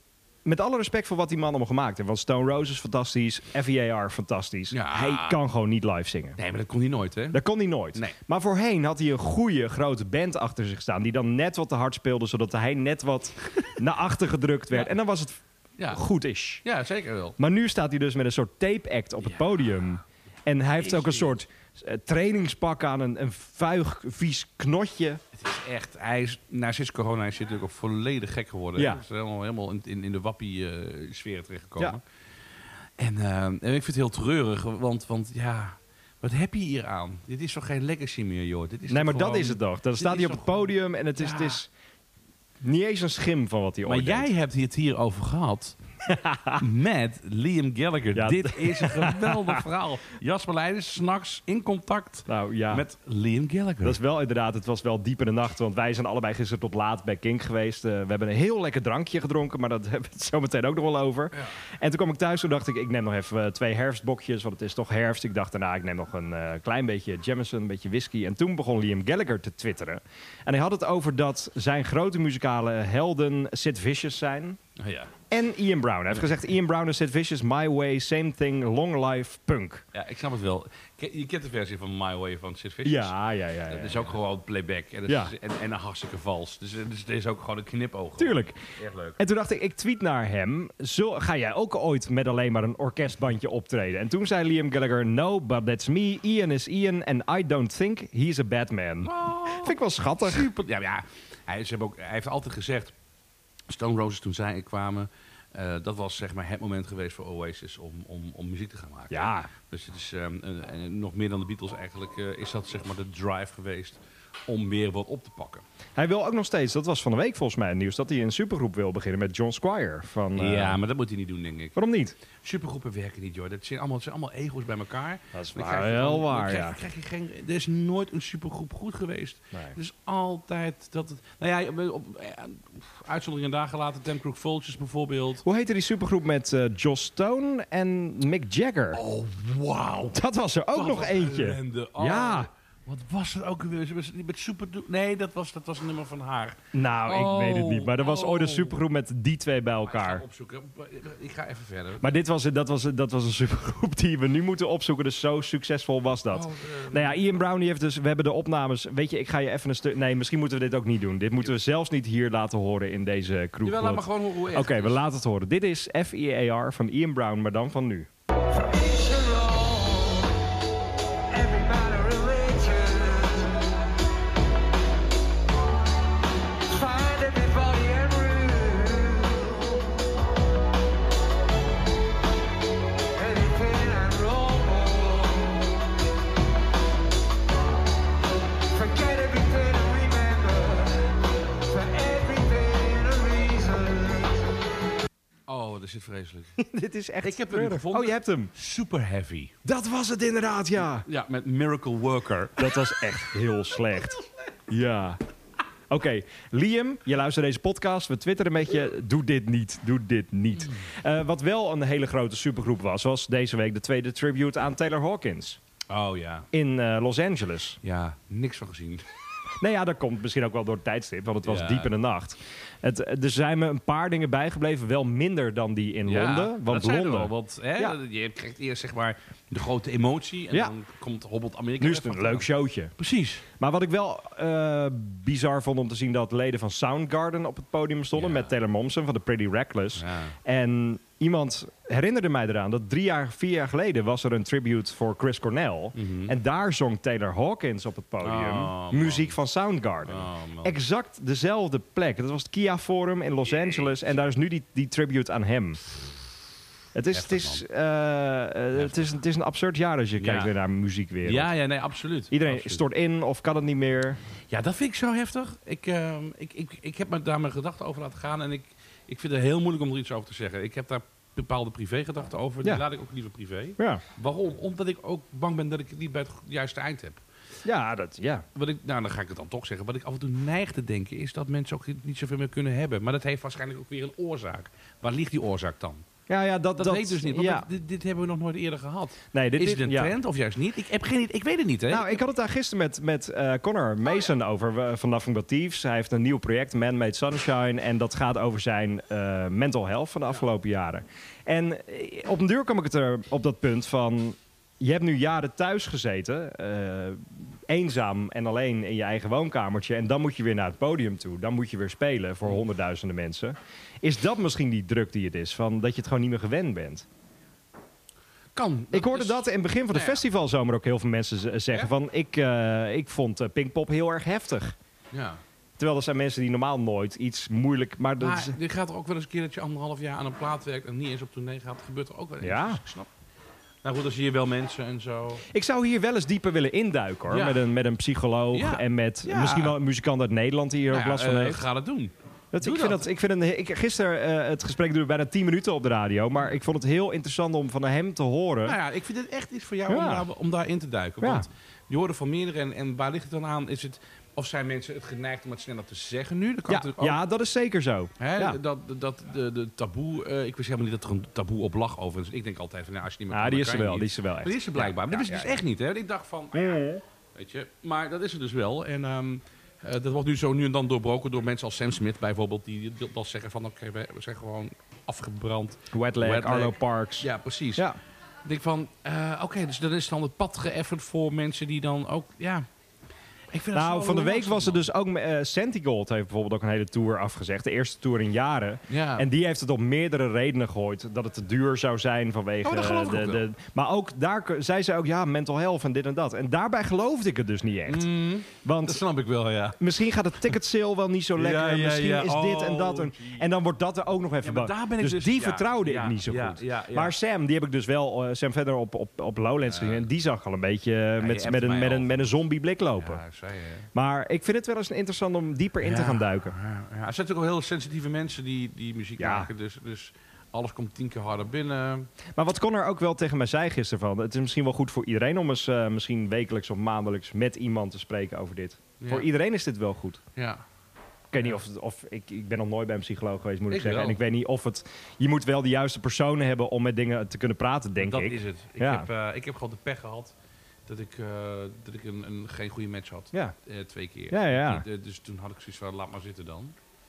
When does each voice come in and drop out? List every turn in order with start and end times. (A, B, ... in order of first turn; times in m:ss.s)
0:00.4-0:06.4 A
0:04.7-0:05.4 B
0:06.4-0:07.4 B
0:07.3-0:16.6 A
0:16.6-0:17.4 B
0:17.4-0:25.2 A
0:19.2-0:19.5 B
0:20.8-0:21.3 B
0:25.3-0:32.0 B
0:28.8-0:29.0 A
0:33.0-0:41.6 B
0:38.9-0:41.7 A
0:42.6-0:44.3 A
0:43.8-0:45.8 B
0:46.0-0:46.6 A
0:46.6-0:54.0 B
0:48.1-0:49.6 A
0:52.3-0:52.8 A
0:53.8-1:14.6 A
1:14.8-1:15.1 B
1:15.3-1:19.8 A
1:19.9-1:23.1 B
1:22.8-1:24.1 A
1:23.7-1:29.2 B
1:25.1-1:25.3 A
1:28.2-1:28.6 A
1:29.2-1:40.5 A
1:39.0-1:42.9 B
1:43.7-1:55.6 B
1:49.1-1:49.5 A
1:56.0-2:00.8 A
2:00.4-2:01.8 B
2:01.8-2:02.2 A
2:02.4-2:15.4 B
2:05.3-2:06.8 A
2:15.4-2:19.0 A
2:18.9-2:20.2 B
2:20.1-2:22.5 A
2:20.7-2:28.8 B
2:26.7-2:30.2 A
2:29.8-2:32.1 B
2:32.0-2:48.1 A
2:36.3-2:37.2 B
2:43.6-2:45.0 B
2:48.5-2:50.4 C
2:51.3-2:53.7 C
2:56.7-3:00.0 C
3:03.1-3:05.8 C
3:08.7-3:14.5 C
3:15.5-3:16.6 B
3:16.6-3:18.5 A
3:17.2-3:19.5 B
3:19.6-3:21.0 A
3:21.0-3:22.9 B
3:22.6-3:24.2 A
3:24.7-3:25.2 A
3:25.9-3:35.6 A
3:35.9-3:36.5 B
3:36.5-3:37.8 A
3:37.8-3:39.0 B
3:39.6-3:48.0 A
3:41.4-3:41.9 B
3:46.1-3:53.4 B
3:51.8-3:52.9 A
3:53.6-4:15.8 A
3:58.1-3:58.5 B
4:00.0-4:00.4 B
4:05.9-4:06.4 B
4:08.2-4:09.4 B
4:10.1-4:10.8 B
4:13.6-4:13.9 B
4:16.9-4:21.5 A
4:17.1-4:17.6 B
4:18.7-4:19.1 B
4:20.2-4:20.5 B
4:21.2-4:22.8 B
4:22.3-4:24.2 A
4:24.5-4:37.2 B
4:33.8-4:34.0 A
4:37.6-4:38.4 A
4:38.5-4:46.0 B
4:46.3-4:47.7 A
4:46.8-4:52.2 B
4:49.3-4:50.1 A
4:51.9-5:17.1 A
5:18.5-5:20.2 B
5:18.9-5:24.8 A
5:25.1-5:25.4 B
5:25.8-5:28.6 A
5:28.2-5:33.1 B
5:32.4-5:32.8 A
5:33.8-5:35.4 B
5:35.5-5:41.6 A
5:37.3-5:37.6 B
5:38.5-5:39.7 B
5:40.9-5:43.0 B
5:42.5-5:48.8 A
5:48.6-5:57.2 B
5:49.9-5:50.2 A
5:51.2-5:51.5 A
5:56.7-5:58.6 A
5:58.2-6:17.9 B
6:03.3-6:05.6 A
6:06.5-6:07.0 A
6:15.9-6:18.0 A
6:18.4-6:22.7 B
6:23.5-6:24.9 B
6:23.7-6:39.0 A
6:28.9-6:29.3 B
6:32.6-6:33.4 B
6:37.9-6:39.8 B
6:39.8-6:53.2 A
6:41.4-6:43.5 B
6:44.4-6:47.1 B
6:49.6-6:50.1 B
6:51.2-6:52.3 B
6:53.0-6:53.9 B
6:53.9-6:56.5 A
6:55.8-7:02.1 B
6:59.2-6:59.5 A
7:02.4-7:10.2 A
7:09.0-7:09.3 B
7:10.4-7:10.6 B
7:11.3-7:19.1 A
7:13.7-7:14.2 B
7:18.0-7:20.3 B
7:20.9-7:26.7 B
7:24.3-7:24.8 A